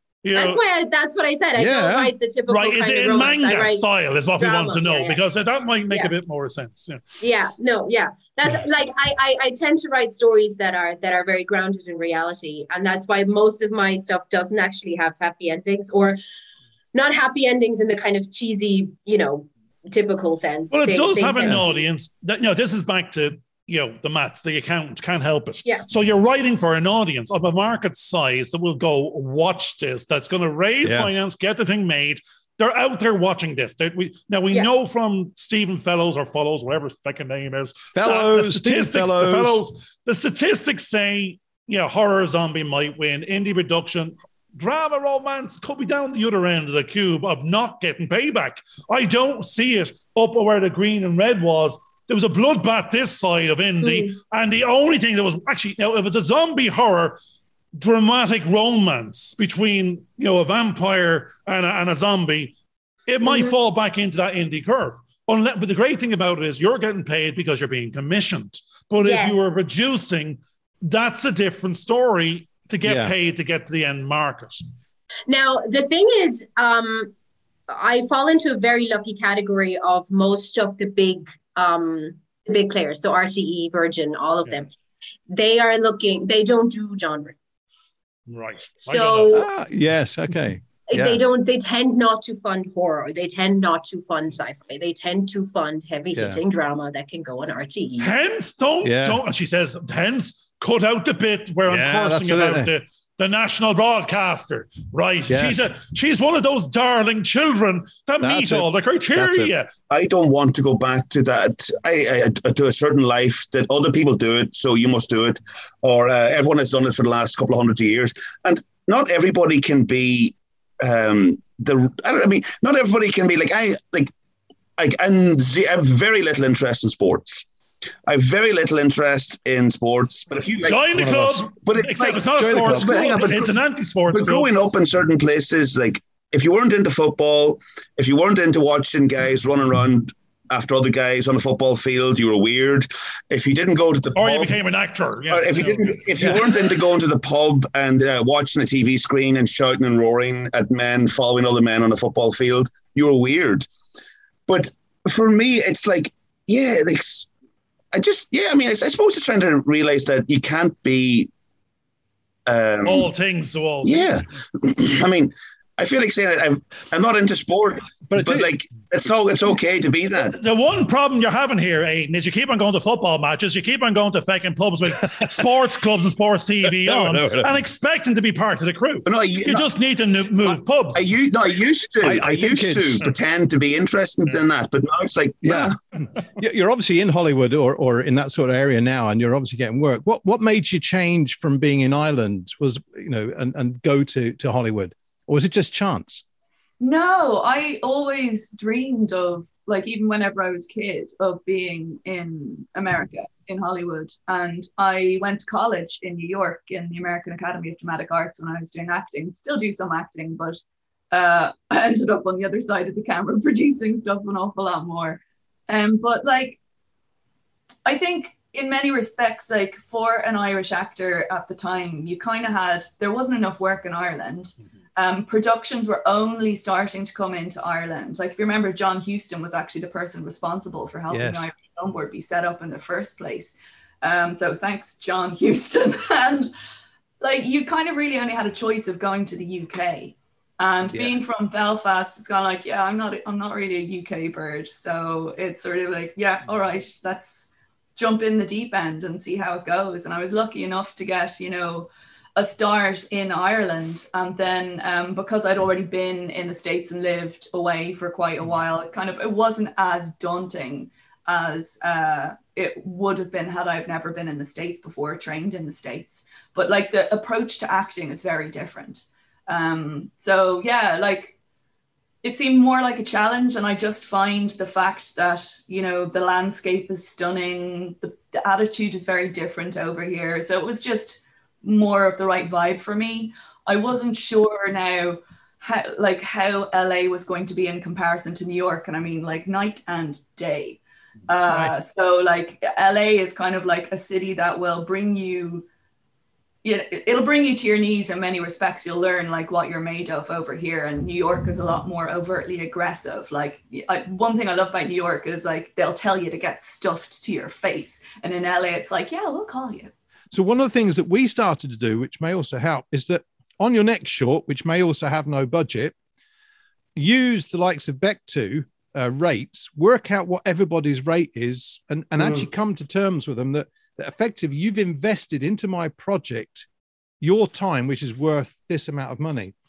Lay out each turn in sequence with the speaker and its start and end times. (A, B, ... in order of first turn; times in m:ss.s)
0:00.2-0:00.6 A
0:00.3-0:03.8 B
0:01.6-0:02.1 C
0:02.5-0:07.0 A
0:04.4-0:05.2 B
0:07.2-0:16.2 B
0:16.9-0:21.8 B
0:20.7-0:57.2 A
0:30.8-0:31.1 C
0:37.9-0:39.6 C
0:53.8-0:54.1 B
0:57.8-1:02.5 A
1:03.1-1:14.6 A
1:03.2-1:03.5 B
1:09.0-1:09.4 B
1:12.8-1:13.1 C
1:15.3-1:17.1 B
1:17.7-1:24.7 B
1:25.3-1:27.4 B
1:28.3-1:29.4 A
1:28.8-1:29.5 B
1:29.3-1:31.2 C
1:30.9-1:38.1 B
1:36.1-1:36.4 C
1:38.0-1:49.7 A
1:38.8-1:39.2 C
1:41.7-1:42.7 C
1:45.3-1:45.6 C
1:48.2-1:49.5 C
1:49.9-2:04.1 D
2:04.8-2:07.5 D
2:08.1-2:11.0 D
2:10.6-2:14.5 A
2:10.9-2:11.5 C
2:11.6-2:13.6 D
2:12.4-2:13.1 C
2:14.1-2:24.5 D
2:24.1-2:26.4 A
2:25.3-2:33.7 D
2:34.5-2:37.3 D
2:37.9-2:41.3 D
2:42.4-2:43.1 D
2:42.8-2:44.1 A
2:43.8-2:50.4 D
2:48.1-2:48.5 C
2:50.2-3:01.0 A
2:56.8-2:57.5 C
2:59.1-2:59.7 D
3:00.4-3:05.8 D
3:02.0-3:03.1 C
3:05.4-3:05.8 C
3:06.4-3:16.2 C
3:16.8-3:36.6 E
3:37.8-3:56.5 E
3:51.1-3:51.4 C
3:57.2-4:31.4 E
4:32.2-4:55.6 E
4:51.5-4:51.7 C
4:56.6-5:09.9 E
5:10.3-5:15.9 C
5:17.0-5:26.7 C
5:27.2-5:29.5 C